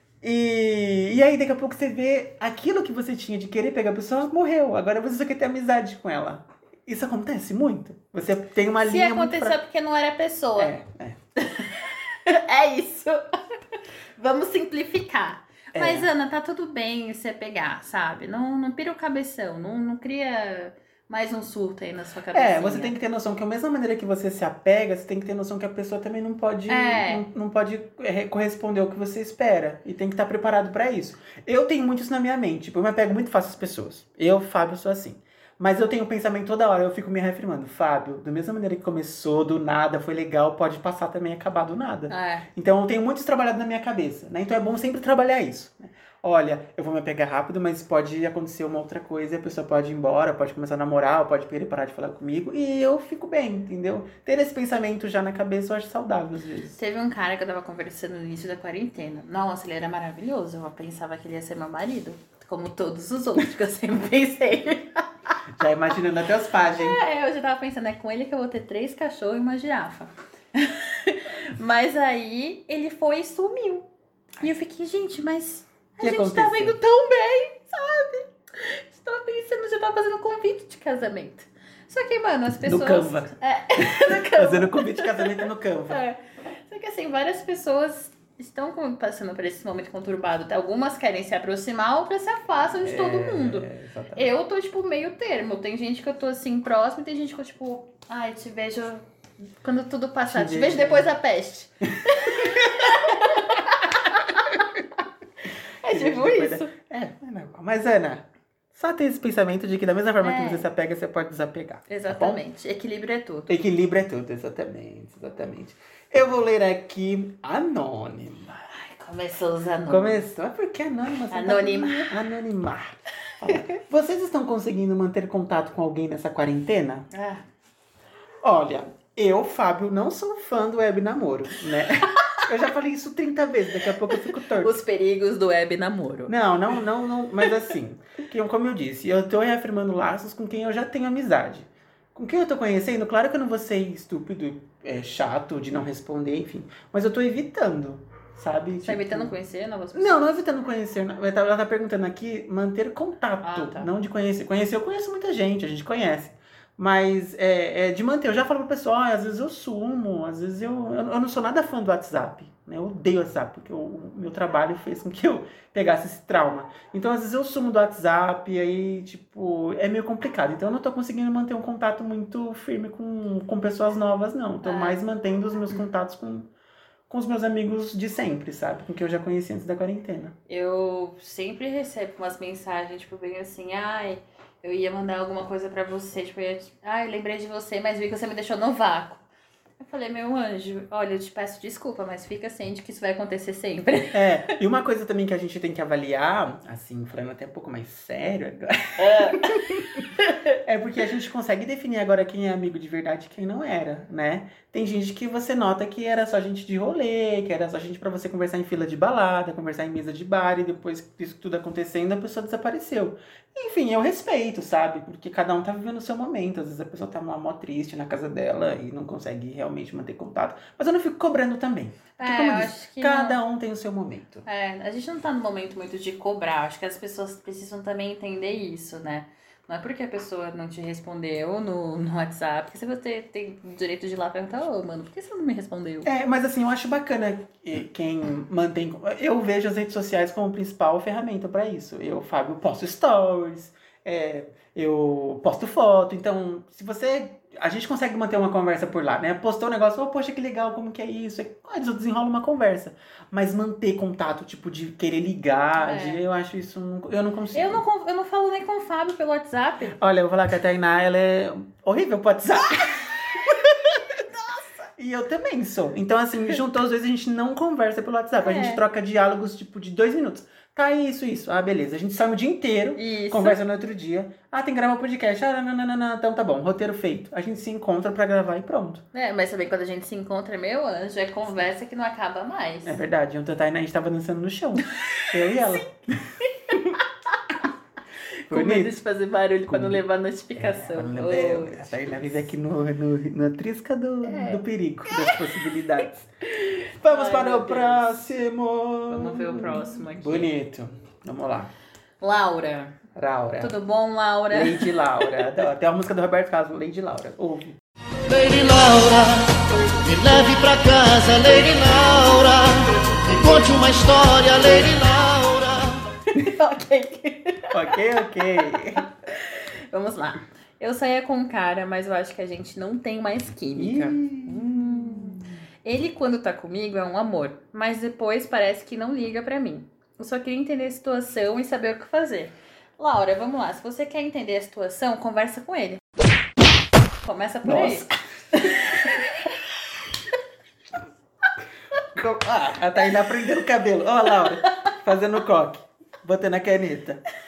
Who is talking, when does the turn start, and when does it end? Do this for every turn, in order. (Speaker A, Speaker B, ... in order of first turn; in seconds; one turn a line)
Speaker A: 0.2-9.6
Speaker B: 8.8-10.7
Speaker A: 10.6-11.2
Speaker B: 11.4-22.9
Speaker A: 15.7-16.1
Speaker A: 22.3-56.8
Speaker B: 26.7-27.2
Speaker B: 42.1-42.5
Speaker B: 56.8-65.3
Speaker A: 65.6-67.0
Speaker B: 66.6-73.9
Speaker B: 74.4-99.0
Speaker A: 76.0-76.8
Speaker A: 82.6-86.0
Speaker A: 92.8-94.3
Speaker B: 99.6-104.7
Speaker A: 100.2-101.1
Speaker A: 102.1-103.1
Speaker B: 105.8-106.7
Speaker A: 105.8-112.4
Speaker B: 110.2-110.7
Speaker B: 111.9-113.6
Speaker A: 113.5-118.6
Speaker B: 118.7-120.2
Speaker A: 119.9-127.1
Speaker B: 121.3-122.1
Speaker B: 123.5-123.7
Speaker B: 127.1-127.4
Speaker A: 128.4-134.8
Speaker B: 134.1-136.3
Speaker A: 136.3-149.4
Speaker B: 148.8-150.3
Speaker A: 149.9-176.5
Speaker B: 153.4-153.9
Speaker B: 174.6-175.0
Speaker A: 177.1-180.3
Speaker B: 180.5-189.2
Speaker B: 189.8-194.6
Speaker A: 194.1-200.1
Speaker B: 199.0-200.6
Speaker A: 200.6-224.4
Speaker B: 222.2-223.4
Speaker B: 224.4-236.1
Speaker A: 236.0-257.8
Speaker B: 255.8-256.2
Speaker B: 257.5-260.0
Speaker A: 259.9-264.0
Speaker B: 264.1-264.9
Speaker A: 265.0-279.0
Speaker B: 268.4-268.8
Speaker B: 272.9-273.6
Speaker B: 279.1-283.0
Speaker A: 282.8-285.9
Speaker B: 285.1-285.8
Speaker B: 286.4-287.0
Speaker A: 286.7-287.0
Speaker B: 288.5-291.9
Speaker A: 288.5-289.0
Speaker A: 289.7-290.0
Speaker A: 290.6-296.3
Speaker B: 294.2-295.8
Speaker B: 296.6-298.1
Speaker A: 297.0-301.7
Speaker B: 299.1-300.5
Speaker B: 302.2-303.0
Speaker A: 303.1-303.7
Speaker B: 303.6-305.4
Speaker A: 304.5-307.8
Speaker C: 308.3-316.1
Speaker B: 316.3-336.0
Speaker A: 317.7-319.1
Speaker A: 323.8-325.5
Speaker B: 337.2-339.5
Speaker A: 337.6-338.1
Speaker A: 342.1-347.2